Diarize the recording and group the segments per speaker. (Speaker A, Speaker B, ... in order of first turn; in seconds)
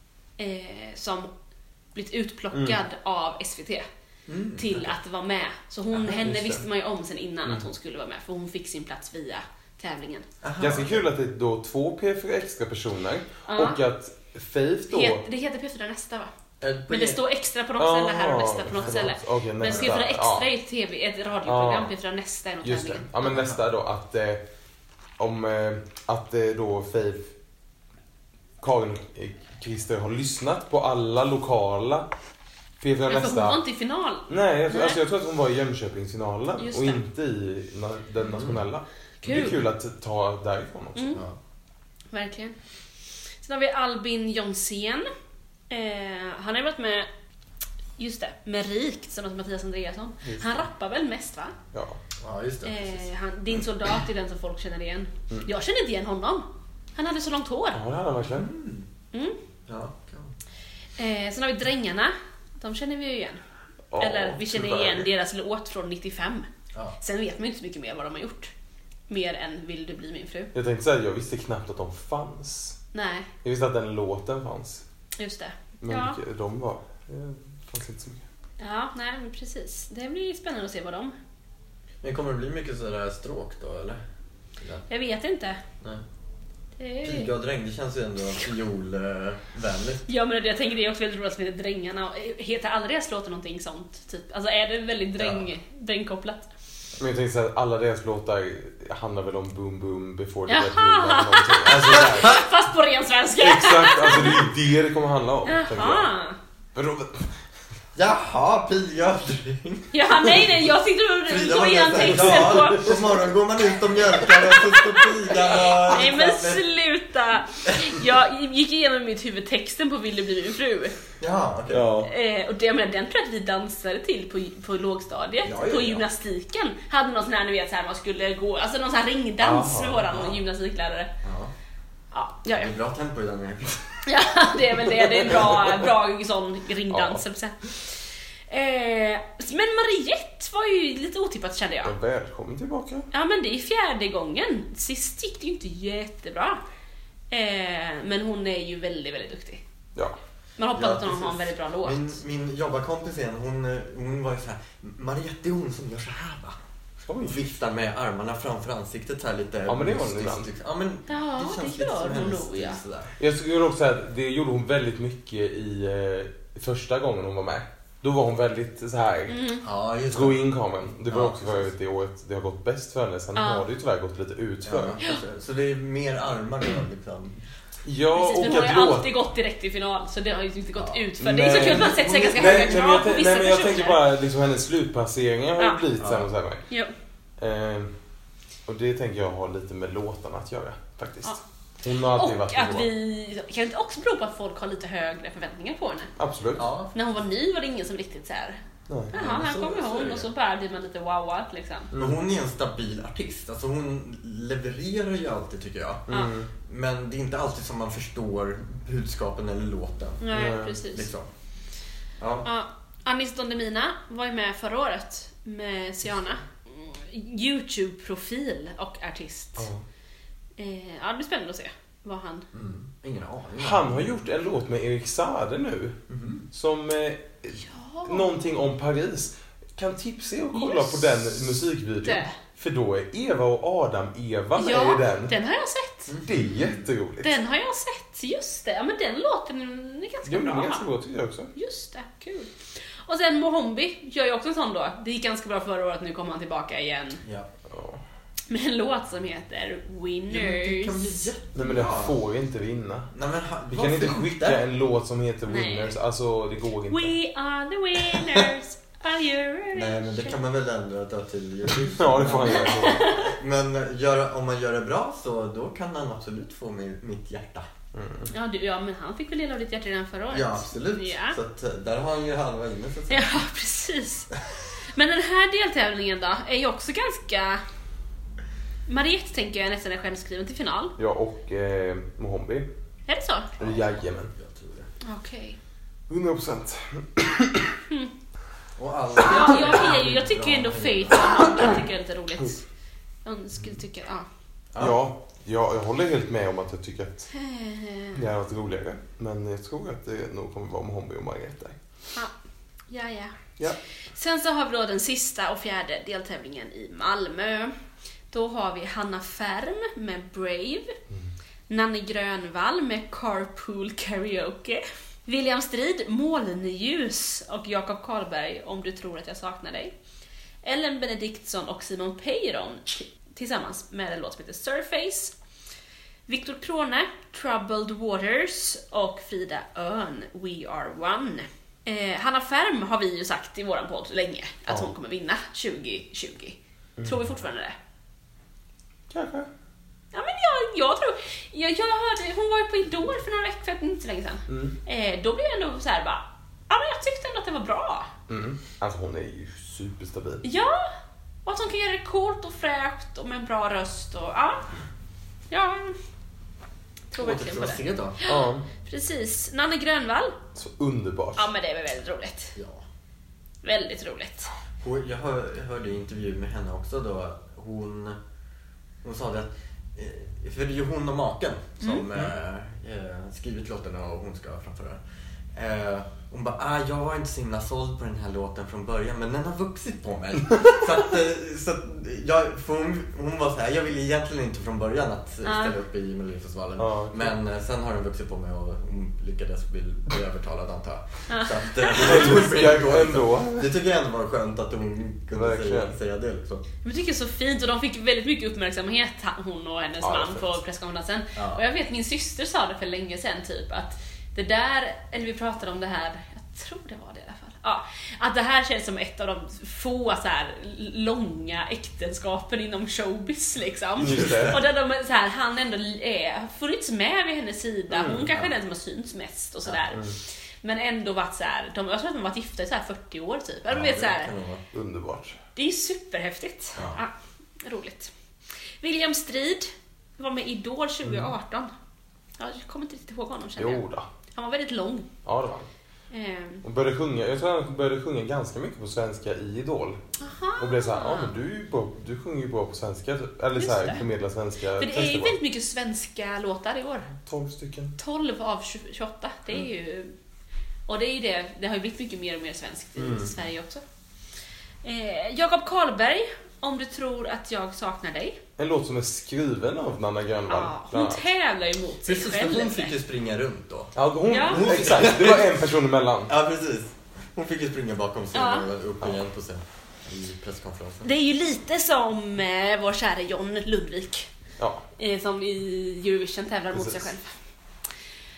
Speaker A: 0.4-1.3, 1.9-3.9, 4.6-10.2, 13.5-13.8, 14.9-16.3, 16.9-23.1, 33.1-35.0, 36.6-37.0, 39.2-39.6, 41.0-41.2, 42.1-42.5, 43.4-45.1, 45.7-47.1, 48.0-51.5, 52.6-57.8, 61.0-63.4, 64.0-66.5, 67.0-68.5, 69.1-70.5, 72.9-73.3, 75.2-76.2, 78.6-81.1, 84.9-85.6, 86.8-87.3, 90.1-96.5, 100.5-104.5, 105.4-106.4, 109.9-113.3, 114.0-120.9, 122.0-131.1, 132.1-132.7, 134.1-137.9, 138.5-141.9, 143.1-146.6, 147.3-149.6, 150.6-152.1, 161.1-162.8, 169.3-169.6, 173.3-173.6, 178.1-184.0, 192.0-196.1, 196.9-198.6, 199.1-201.9, 210.2-211.1, 212.4-219.7, 220.6-222.4, 227.6-228.3, 230.5-231.3, 232.0-232.3, 234.6-236.1, 237.2-240.8, 241.5-247.2, 248.5-251.3, 255.5-255.9, 256.9-260.4, 262.5-263.3, 268.3-271.4, 273.1-274.4, 274.9-277.6, 278.9-280.9, 283.1-283.5, 285.0-285.6, 289.2-292.6, 293.2-294.2, 297.3-298.2, 302.9-303.5, 304.1-307.7, 308.3-310.9, 311.7-319.9, 320.6-325.3, 326.3-337.7, 340.1-348.1, 350.4-350.9, 351.4-354.7, 355.5-356.0, 357.1-360.4, 361.4-362.5, 363.6-364.5, 385.4-385.8, 391.3-392.3, 396.8-420.1, 420.6-424.3, 425.6-427.1, 427.6-428.1, 428.8-431.7, 432.4-433.8, 434.3-435.1, 436.1-436.6, 440.2-441.3, 443.6-444.0, 444.8-447.1, 448.0-450.1, 450.9-453.8, 454.8-458.4, 460.5-462.9, 464.3-464.7, 468.3-468.7, 471.0-474.3, 475.0-477.3
Speaker B: 2.5-2.8, 6.0-6.6, 10.6-15.2, 17.8-20.5, 21.4-21.9, 22.6-24.4, 25.2-27.3, 28.6-32.1, 32.8-33.6, 34.3-41.1, 50.2-50.6, 51.7-52.0, 57.7-58.5, 63.9-65.1, 70.5-72.8, 73.4-74.8, 75.8-78.2, 97.0-102.4, 103.4-106.1, 106.7-107.3, 112.0-112.9, 121.7-122.1, 129.4-130.2, 136.9-137.2, 141.8-143.1, 157.1-157.4, 159.7-160.5, 163.2-169.4, 170.1-175.0, 177.8-179.1, 181.2-186.6, 187.4-187.9, 188.7-192.9, 196.2-196.7, 198.9-199.1, 201.9-202.2, 206.1-206.5, 210.3-210.8, 219.6-219.8, 223.6-226.0, 226.5-235.3, 236.2-237.3, 240.2-241.5, 247.7-248.0, 251.5-253.1, 253.7-257.1, 261.8-263.1, 267.9-268.3, 281.0-282.7, 283.6-284.3, 286.1-287.8, 294.8-297.3, 298.1-301.8, 339.1-339.5, 344.5-344.7, 348.3-350.4, 358.2-358.7, 360.5-361.5, 386.8-387.3, 391.9-393.7, 395.3-395.9, 400.0-400.6, 414.0-414.6, 417.9-418.3, 419.9-420.2, 424.7-425.4, 431.0-431.3, 433.6-434.1, 435.2-435.7, 436.6-440.0, 440.6-445.4, 447.2-447.9, 453.0-453.3, 458.6-461.2, 463.9-466.3, 474.6-474.8, 476.7-477.0
Speaker C: 4.3-4.9, 10.4-11.0, 16.6-17.2, 18.7-19.1, 19.7-19.9, 23.3-23.6, 38.3-38.6, 52.2-53.0, 58.2-58.9, 59.7-60.3, 82.0-84.0, 84.6-84.8, 87.0-90.0, 107.9-110.5, 111.2-116.6, 121.2-121.9, 125.4-126.0, 130.1-130.3, 131.2-131.5, 132.5-134.0, 135.3-135.6, 150.7-156.6, 157.2-163.1, 169.6-170.4, 171.1-171.7, 174.6-177.4, 180.8-182.9, 186.0-186.3, 196.6-196.9, 199.1-200.3, 201.9-206.1, 206.6-210.3, 210.8-211.3, 212.2-212.5, 222.5-224.1, 226.1-226.4, 236.1-236.8, 247.2-247.5, 250.3-252.2, 253.1-254.6, 258.1-258.5, 259.7-267.6, 270.3-273.3, 283.6-284.9, 288.8-291.5, 357.2-358.2, 362.6-362.8, 364.8-368.2, 369.0-375.0, 375.5-396.6, 401.4-401.6, 414.0-414.6, 423.7-424.6, 426.8-427.0, 462.0-465.6, 466.3-471.1